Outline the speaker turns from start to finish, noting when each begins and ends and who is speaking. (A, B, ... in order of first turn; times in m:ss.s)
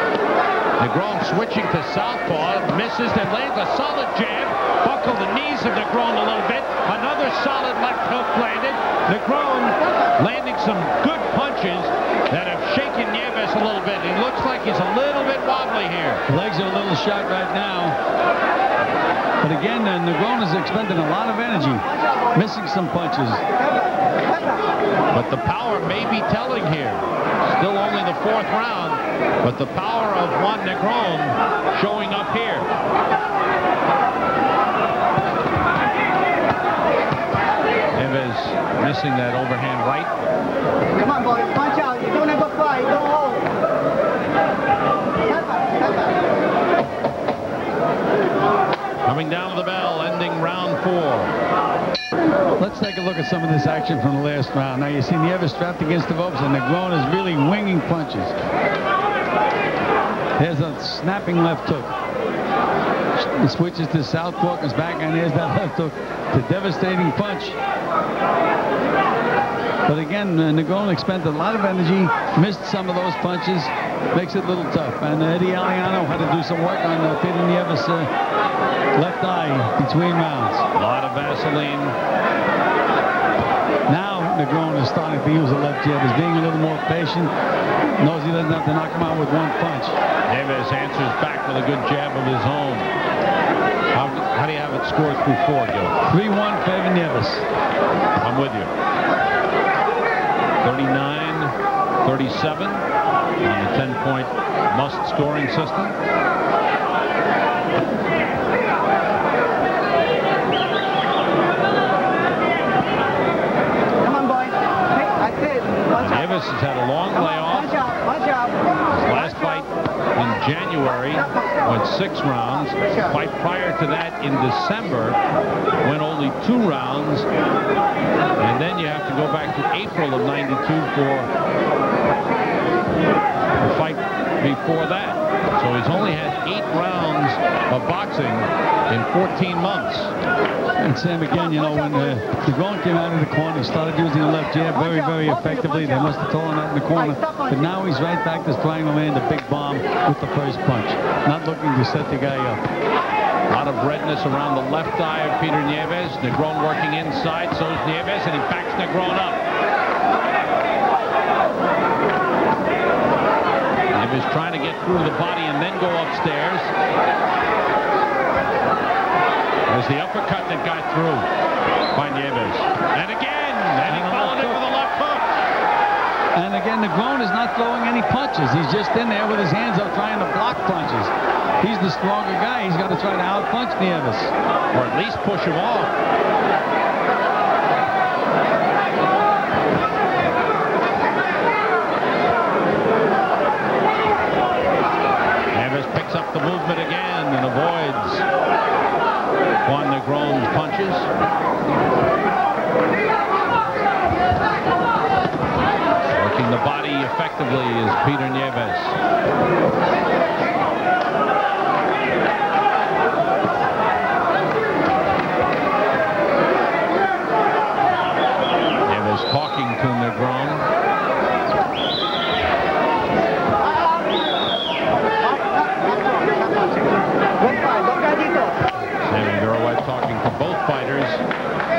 0:00.8-0:16.2 A
0:16.3-0:18.0 B
0:19.4-0:23.4 B
0:21.9-0:22.3 C
0:23.5-0:24.7 C
0:25.1-0:32.7 A
0:37.9-0:40.3 A
0:41.0-0:43.5 C
0:45.2-0:46.2 C
0:49.0-0:51.3 A
0:52.6-0:58.4 B
1:00.4-1:01.9 B
1:03.2-1:07.6 B
1:09.8-1:18.1 B
1:18.9-1:20.6 B
1:20.8-1:22.0 A
1:23.9-1:27.3 B
1:28.0-1:30.0 B
1:30.2-1:32.9 A
1:33.9-1:36.0 A
1:36.1-1:37.4 B
1:38.2-1:38.7 A
1:40.6-1:42.8 A
1:43.4-1:45.9 A
1:54.0-1:56.4 C
1:56.0-1:57.7 A
1:57.1-1:59.6 C
1:58.9-2:05.2 A
2:01.1-2:01.7 C
2:02.6-2:03.1 C
2:05.8-2:07.3 A
2:08.4-2:11.3 A
2:13.6-2:20.1 A
2:20.8-2:32.6 B
2:21.5-2:22.1 C
2:24.7-2:26.1 C
2:26.9-2:27.7 C
2:33.5-2:39.4 A
2:43.9-2:46.7 A
2:49.7-2:51.3 A
2:51.9-2:55.2 A
2:53.9-2:54.6 B
2:56.3-3:04.3 B
3:04.7-3:05.9 A
3:15.5-3:18.2 A
3:19.6-3:21.1 A
3:26.1-3:29.0 A
3:38.8-3:40.6 A
3:45.2-3:48.6 C
3:49.0-3:51.2 A